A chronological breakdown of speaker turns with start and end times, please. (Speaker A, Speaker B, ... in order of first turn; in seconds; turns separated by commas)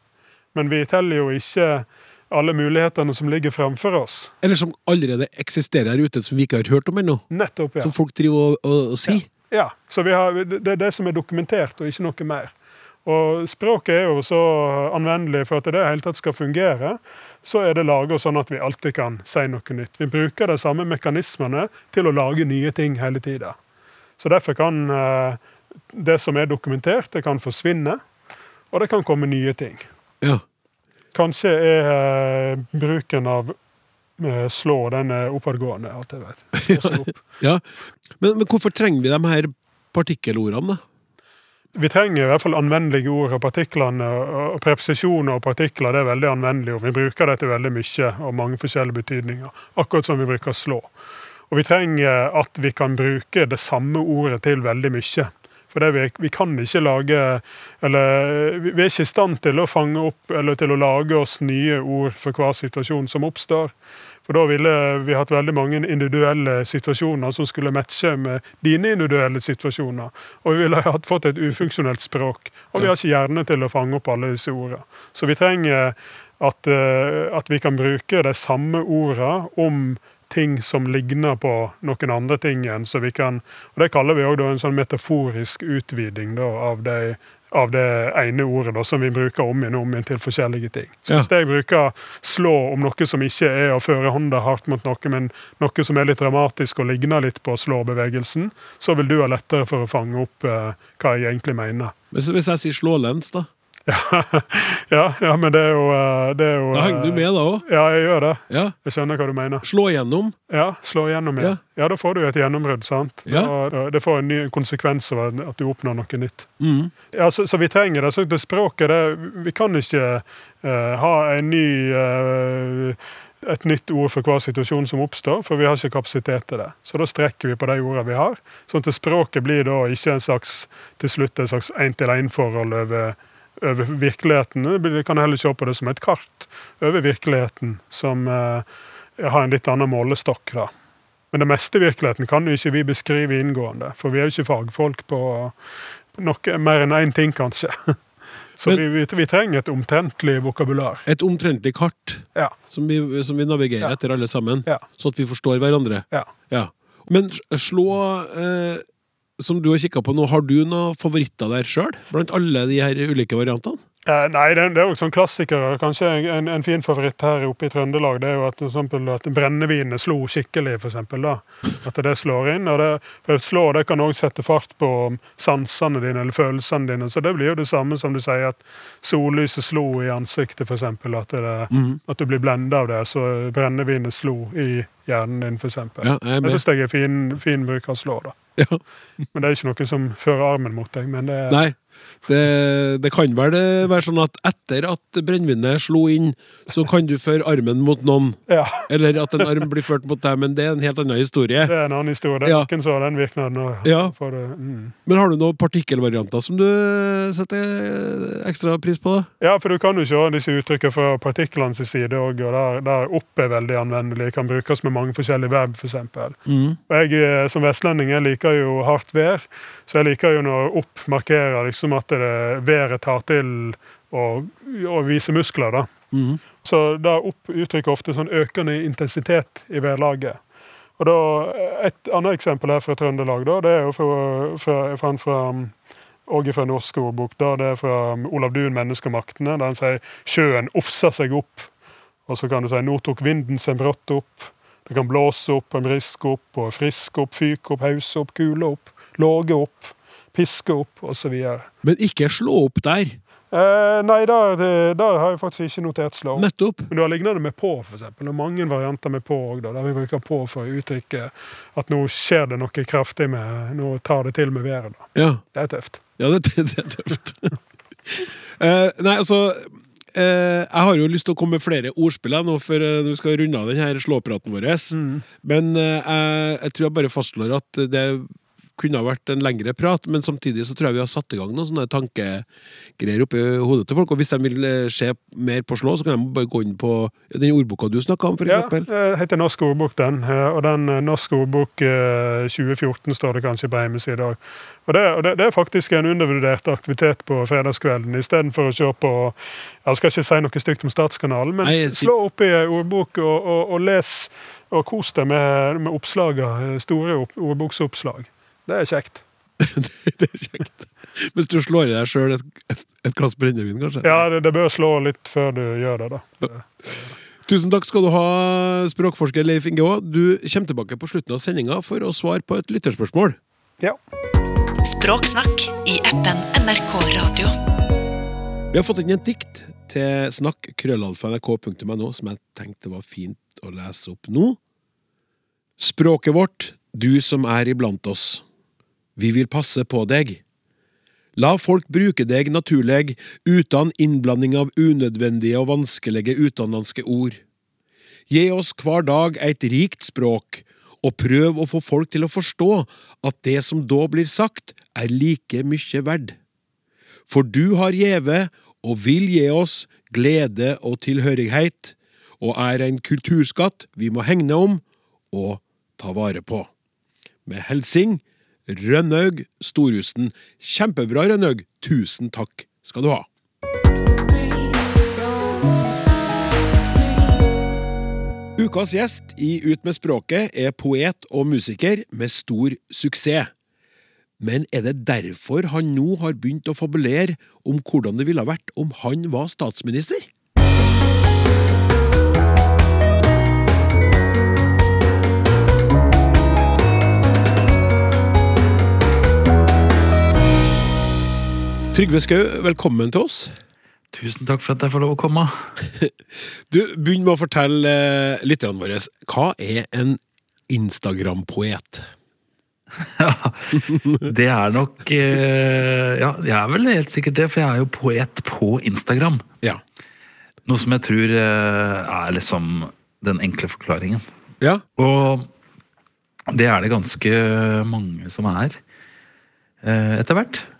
Speaker A: 0.5-4.3, Speaker B: 4.4-7.3, Speaker A: 7.3-7.9, Speaker B: 7.8-9.2, Speaker A: 9.1-23.6, Speaker A: 24.2-25.4, Speaker A: 25.9-28.0, Speaker A: 28.7-29.9, Speaker A: 31.1-33.5, Speaker A: 34.2-37.2, Speaker B: 36.6-37.6, Speaker B: 38.2-40.8, Speaker A: 41.8-50.9, Speaker A: 51.5-101.9, Speaker B: 102.1-103.5, Speaker A: 103.9-109.6, Speaker B: 106.7-107.7, Speaker B: 108.5-108.7, Speaker B: 109.6-110.4, Speaker A: 110.5-116.5, Speaker B: 113.3-113.5, Speaker B: 116.6-116.9, Speaker A: 117.1-140.7, Speaker A: 141.3-145.6, Speaker A: 146.1-148.0, Speaker A: 148.6-151.1, Speaker B: 151.1-158.8, Speaker B: 159.4-163.8, Speaker A: 164.1-188.3, Speaker B: 181.7-182.0, Speaker B: 186.0-186.6, Speaker A: 189.3-191.6, Speaker B: 191.5-201.7, Speaker A: 198.5-198.9, Speaker A: 201.7-204.9, Speaker B: 202.4-202.7, Speaker B: 203.8-204.1, Speaker B: 205.1-209.3, Speaker A: 209.4-225.9, Speaker B: 216.5-216.8, Speaker B: 226.1-226.4, Speaker A: 226.6-230.4, Speaker A: 231.0-241.7, Speaker A: 242.2-251.7, Speaker B: 251.8-253.2, Speaker A: 253.5-266.0, Speaker B: 256.4-256.9, Speaker B: 265.1-265.5, Speaker B: 266.2-282.4, Speaker A: 274.9-275.2, Speaker B: 283.0-288.9, Speaker A: 288.5-309.2, Speaker B: 301.6-302.1, Speaker B: 309.6-314.2, Speaker A: 314.0-317.1, Speaker B: 317.4-323.4, Speaker C: 324.8-327.5, Speaker B: 328.7-334.6, Speaker B: 335.8-338.4, Speaker B: 339.2-340.4, Speaker B: 341.4-347.4, Speaker B: 348.3-356.4, Speaker B: 357.3-366.7, Speaker B: 367.4-373.3, Speaker B: 378.6-383.5, Speaker B: 384.4-390.2, Speaker B: 401.9-403.5, Speaker D: 404.1-405.7, Speaker B: 406.7-412.1, Speaker D: 413.0-419.4, Speaker D: 420.6-424.2, Speaker D: 425.0-425.5, Speaker D: 426.5-428.8, Speaker D: 429.8-430.6